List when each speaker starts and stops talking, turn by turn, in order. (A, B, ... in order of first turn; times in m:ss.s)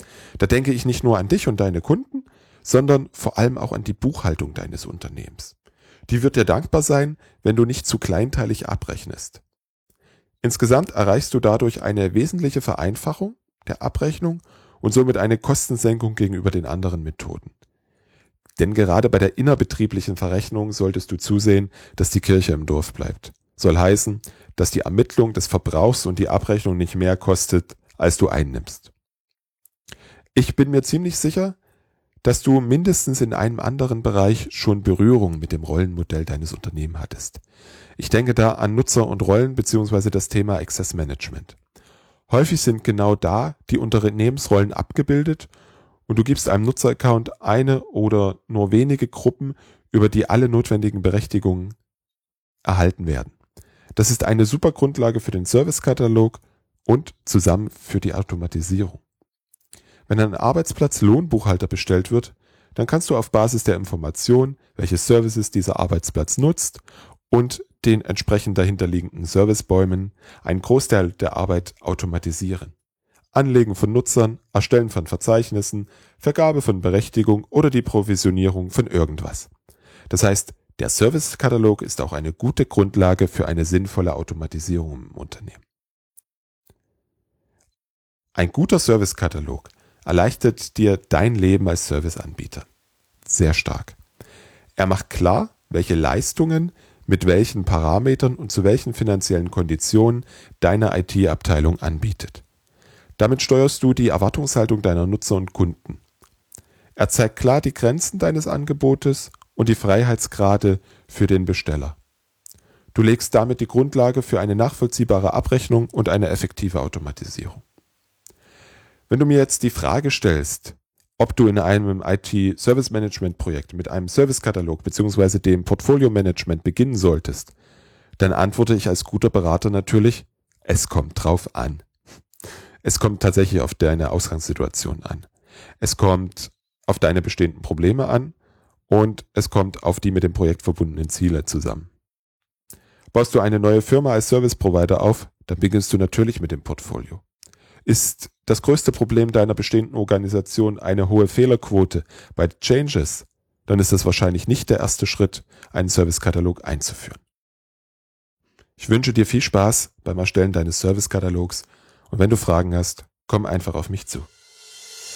0:00.4-0:05.5 A
0:06.1-0:09.4 A
0:10.4-0:17.5 A
0:18.6-0:28.9 A
0:30.4-0:31.6 A
0:32.2-0:37.4 A
0:38.0-0:41.6 A
0:42.3-0:45.5 A
0:46.1-0:51.8 A
0:52.6-0:53.3 A
0:54.0-0:59.0 A
1:00.1-1:12.7 A
1:13.3-1:19.5 A
1:20.1-1:25.6 A
1:28.4-1:32.7 A
1:33.2-1:34.0 A
1:34.8-1:42.4 A
1:43.2-1:46.0 A
1:47.0-1:52.0 A
1:52.9-1:57.6 A
1:59.1-2:07.5 A
2:08.2-2:11.8 A
2:12.8-2:15.3 A
2:15.8-2:18.4 A
2:18.9-2:21.9 A
2:23.1-2:27.2 A
2:27.9-2:37.2 A
2:38.8-2:44.3 A